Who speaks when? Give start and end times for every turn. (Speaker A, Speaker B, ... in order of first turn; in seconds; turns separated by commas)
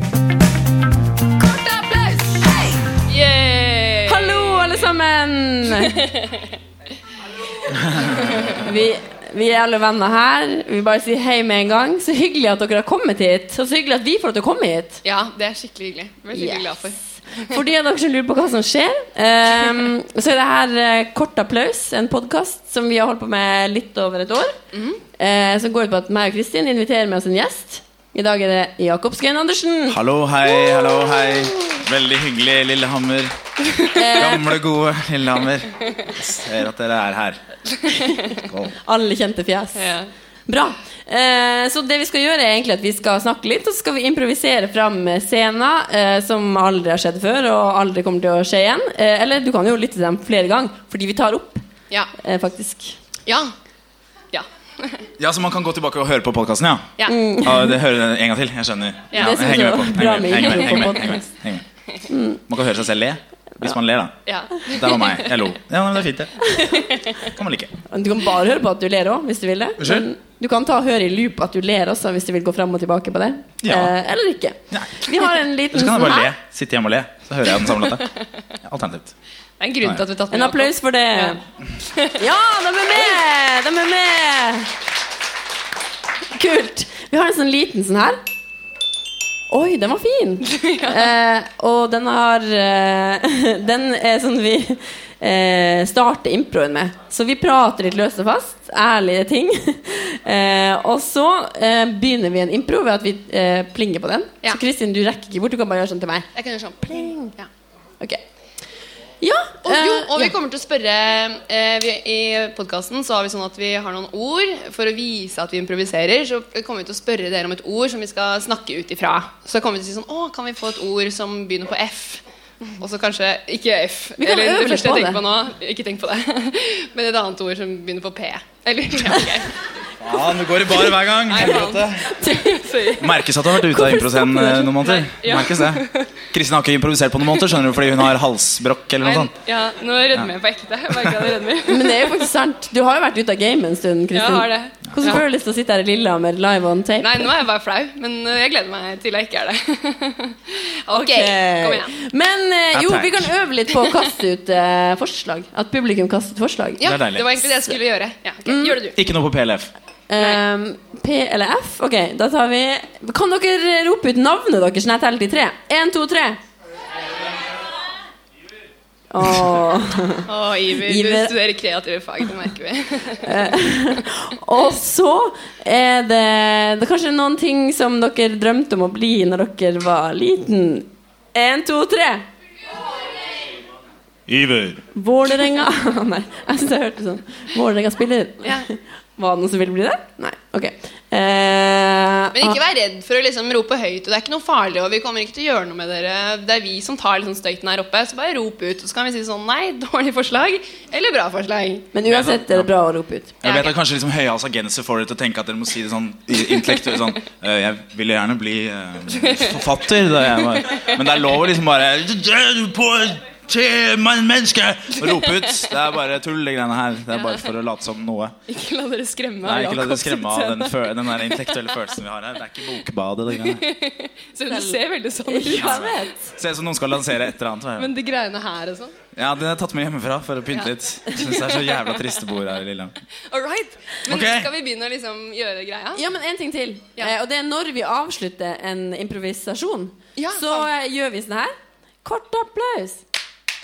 Speaker A: 1.7-2.4, Speaker A: 3.1-4.7, Speaker B: 4.1-6.1, Speaker A: 5.8-6.5, Speaker A: 8.2-8.5, Speaker B: 8.3-15.0, Speaker A: 15.0-17.5, Speaker B: 16.3-24.6, Speaker A: 24.7-25.0, Speaker B: 25.1-30.0, Speaker C: 29.9-33.4, Speaker B: 33.9-34.6, Speaker C: 34.0-37.4, Speaker A: 37.9-38.2, Speaker B: 38.0-53.0, Speaker C: 38.4-38.7, Speaker A: 39.8-40.1, Speaker A: 53.3-53.5, Speaker A: 54.3-55.1, Speaker C: 55.2-61.6, Speaker B: 57.1-57.8, Speaker A: 59.1-59.5, Speaker B: 59.1-61.3, Speaker A: 60.5-61.1, Speaker B: 62.1-62.4, Speaker C: 62.5-66.5, Speaker A: 64.2-65.5, Speaker B: 66.4-67.0, Speaker A: 66.7-67.2, Speaker C: 67.1-67.7, Speaker B: 67.9-76.3, Speaker C: 69.8-70.1, Speaker C: 73.6-73.9, Speaker C: 74.7-79.1, Speaker A: 79.6-82.2, Speaker B: 80.3-81.4, Speaker B: 82.1-84.7, Speaker B: 86.3-88.2, Speaker B: 89.5-106.3, Speaker A: 90.5-91.1, Speaker A: 106.3-107.5, Speaker B: 106.8-107.3, Speaker B: 109.2-110.3, Speaker A: 109.6-122.2, Speaker A: 122.8-129.5, Speaker B: 124.2-125.2, Speaker C: 130.0-132.2, Speaker A: 130.9-133.2, Speaker B: 132.2-132.8, Speaker C: 133.0-139.3, Speaker B: 133.5-134.8, Speaker A: 134.8-136.2, Speaker A: 139.0-142.2, Speaker C: 140.9-141.2, Speaker B: 141.7-147.3, Speaker A: 144.1-145.2, Speaker C: 144.9-145.2, Speaker A: 147.0-151.9, Speaker B: 150.9-156.9, Speaker C: 152.7-153.3, Speaker A: 156.8-159.0, Speaker C: 156.8-157.4, Speaker B: 158.4-158.8, Speaker C: 158.9-159.7, Speaker B: 160.1-166.4, Speaker B: 169.1-170.3, Speaker A: 170.2-173.5, Speaker B: 170.8-171.3, Speaker B: 173.2-182.2, Speaker C: 184.3-184.8, Speaker B: 184.9-192.6, Speaker A: 192.3-201.9, Speaker B: 201.9-203.4, Speaker C: 202.0-202.7, Speaker C: 203.4-218.3, Speaker A: 203.4-203.8, Speaker A: 206.5-206.9, Speaker A: 209.1-209.6, Speaker A: 210.7-211.0, Speaker A: 217.1-217.5, Speaker A: 218.5-221.8, Speaker C: 219.4-223.6, Speaker A: 223.4-225.9, Speaker B: 224.5-226.3, Speaker C: 225.5-227.9, Speaker A: 227.8-229.0, Speaker C: 229.1-233.0, Speaker A: 230.5-232.0, Speaker A: 233.3-236.0, Speaker C: 234.1-234.5, Speaker B: 235.9-243.0, Speaker A: 240.2-240.7